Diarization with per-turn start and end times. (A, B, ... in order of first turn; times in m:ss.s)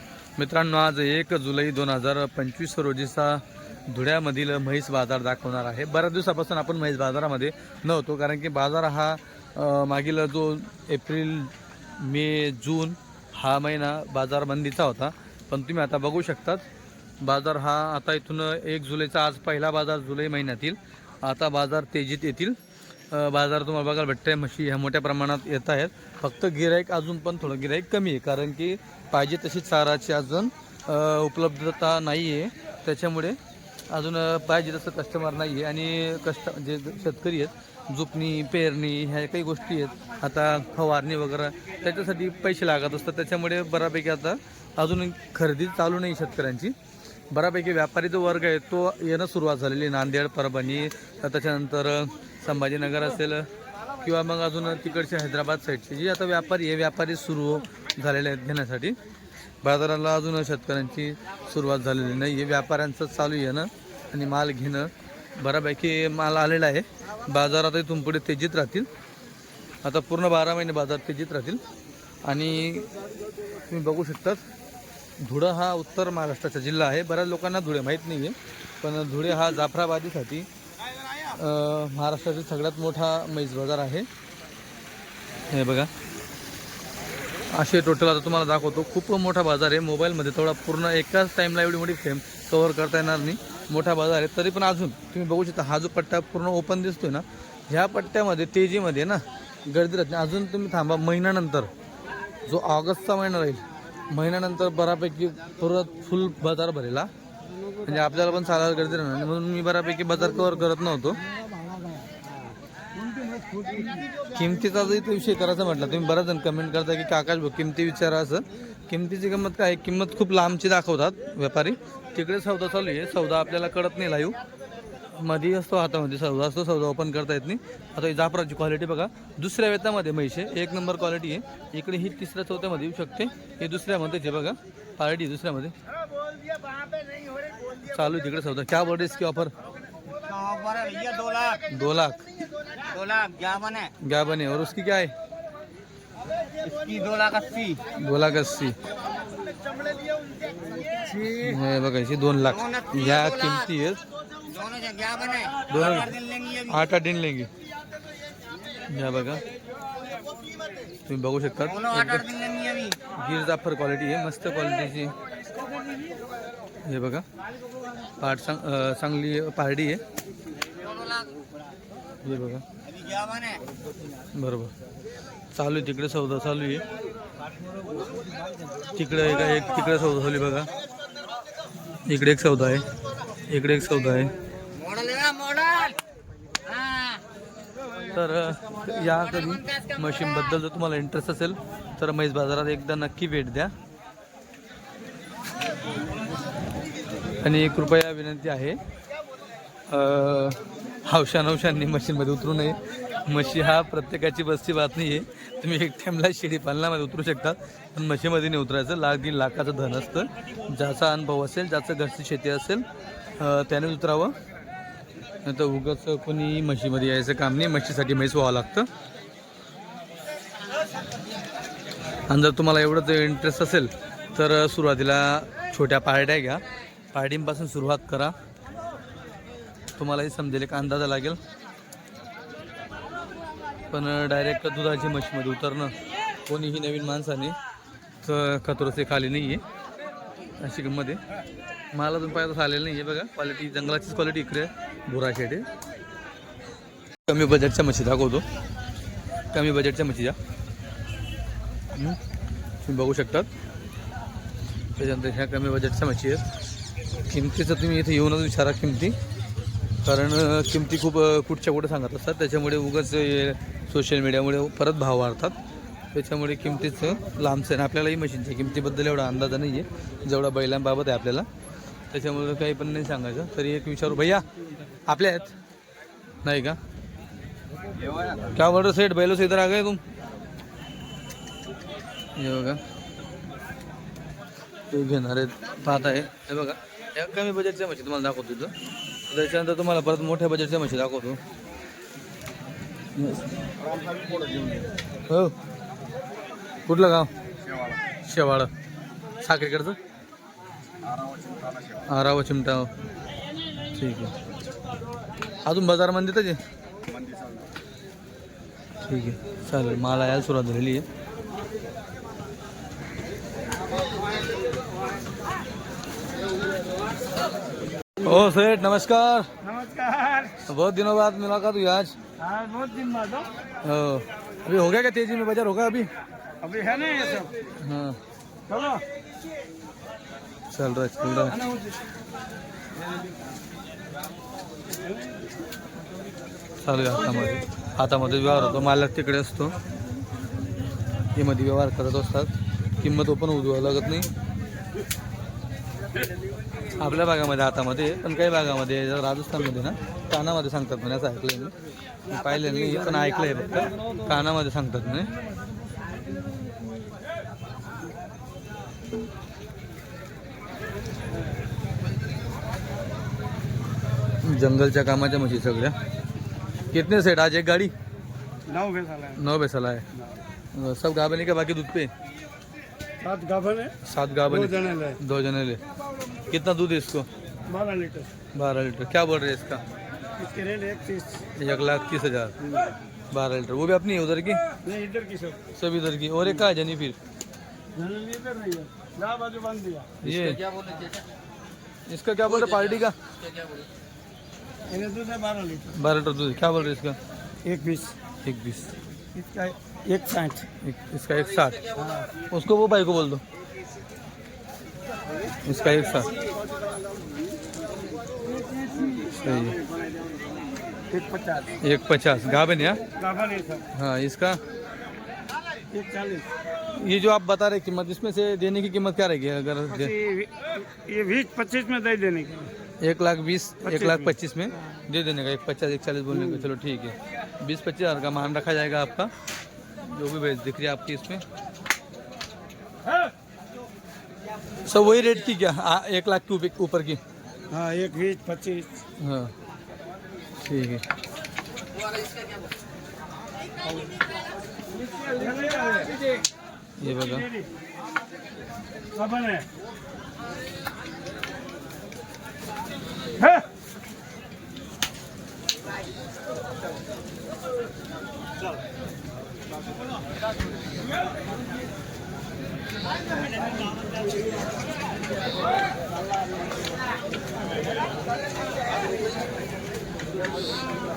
0:00.4-0:16.6 A
0:17.2-0:22.6 A
0:23.1-0:33.4 A
0:33.9-0:46.8 A
0:47.3-0:53.5 A
0:54.0-0:59.0 A
0:59.6-1:08.9 A
1:09.8-1:11.6 A
1:12.2-1:12.9 A
1:13.7-1:14.4 A
1:15.2-1:20.5 A
1:21.2-1:24.1 A
1:25.5-1:25.9 A
1:27.5-1:41.7 A
1:42.4-1:47.1 A
1:47.8-1:51.2 A
1:51.6-1:52.0 B
1:53.0-1:54.1 B
1:54.3-2:04.4 A
2:05.1-2:15.7 A
2:17.8-2:19.5 A
2:20.1-2:21.6 C
2:21.7-2:22.2 A
2:22.8-2:23.9 C
2:24.0-2:25.1 A
2:26.6-2:27.8 C
2:27.9-2:28.8 A
2:31.1-2:34.0 A
2:34.4-2:36.7 C
2:35.7-2:37.5 A
2:38.9-2:39.4 A
2:41.1-2:42.4 A
2:42.2-2:43.0 C
2:43.1-2:45.1 A
2:46.8-2:47.2 A
2:48.2-2:50.0 A
2:50.8-2:51.4 C
2:52.2-2:52.6 A
2:52.8-2:53.6 C
2:54.3-2:54.7 A
2:55.5-2:56.8 A
2:58.9-3:00.7 A
3:02.0-3:02.9 A
3:03.5-3:04.3 A
3:04.7-3:06.0 C
3:06.6-3:07.2 C
3:08.1-3:13.7 A
3:17.4-3:18.8 A
3:19.9-3:32.8 A
3:33.4-3:34.4 A
3:35.4-3:38.9 A
3:42.3-3:46.6 A
3:47.1-3:48.3 A
3:50.0-3:51.4 A
3:53.9-3:55.9 A
3:56.5-3:57.6 A
3:58.2-3:59.6 A
4:00.6-4:01.2 A
4:01.9-4:05.7 A
4:07.3-4:08.4 A
4:09.5-4:10.4 A
4:11.9-4:12.2 A
4:12.8-4:13.5 A
4:15.0-4:16.4 A
4:17.3-4:19.2 A
4:20.0-4:25.6 A
4:26.1-4:31.5 A
4:32.1-4:34.5 A
4:35.1-4:35.6 A
4:36.4-4:36.8 A
4:38.5-4:40.0 A
4:42.4-4:42.8 A
4:44.9-4:48.7 A
4:49.3-4:51.4 A
4:53.2-4:53.5 A
4:54.1-4:54.8 B
4:55.3-4:55.6 A
4:56.9-4:57.3 A
4:58.2-4:58.7 A
4:59.4-5:00.0 A
5:02.0-5:02.9 A
5:03.9-5:04.4 A
5:05.6-5:06.6 A
5:07.2-5:07.5 B
5:09.1-5:11.1 A
5:18.2-5:19.5 A
5:19.6-5:20.7 B
5:20.7-5:22.2 A
5:22.4-5:23.5 B
5:23.8-5:26.1 A
5:26.6-5:27.6 B
5:27.8-5:28.2 A
5:28.7-5:29.0 B
5:30.7-5:31.6 A
5:31.5-5:31.9 B
5:35.0-5:35.4 B
5:36.8-5:39.8 A
5:41.4-5:44.3 A
5:46.9-5:51.7 A
5:52.3-5:55.3 A
6:04.4-6:05.9 A
6:06.9-6:07.9 A
6:08.7-6:09.4 B
6:09.4-6:10.1 A
6:10.7-6:12.1 A
6:13.2-6:14.0 B
6:14.0-6:15.8 A
6:14.5-6:15.2 B
6:16.5-6:17.3 A
6:17.7-6:18.3 B
6:18.5-6:19.8 A
6:20.4-6:21.4 B
6:21.6-6:22.6 A
6:22.6-6:22.9 B
6:23.3-6:24.6 A
6:24.8-6:25.6 B
6:25.8-6:27.2 A
6:27.9-6:30.2 B
6:30.2-6:30.8 A
6:32.1-6:33.2 A
6:34.9-6:35.9 B
6:35.9-6:37.2 A
6:37.6-6:38.2 B
6:38.4-6:38.9 A
6:39.3-6:40.7 B
6:40.8-6:41.9 A
6:42.0-6:42.3 B
6:42.5-6:43.4 A
6:45.6-6:46.3 A
6:46.4-6:46.9 B
6:48.4-6:49.4 B
6:49.3-6:49.8 A
6:51.1-6:51.8 B
6:51.8-6:53.0 A
6:53.1-6:53.9 B
6:53.9-6:54.6 A
6:55.9-6:56.5 B
6:56.9-7:00.1 A
6:59.9-7:02.7 B
7:03.0-7:09.3 A
7:03.8-7:04.4 B
7:06.3-7:06.7 B
7:10.0-7:11.4 A
7:14.9-7:17.2 A
7:17.7-7:19.0 B
7:19.2-7:19.5 A
7:20.6-7:21.0 A
7:23.9-7:24.2 B
7:25.1-7:26.4 B
7:27.0-7:27.5 A
7:27.1-7:27.6 B
7:29.1-7:29.7 B
7:33.4-7:33.7 B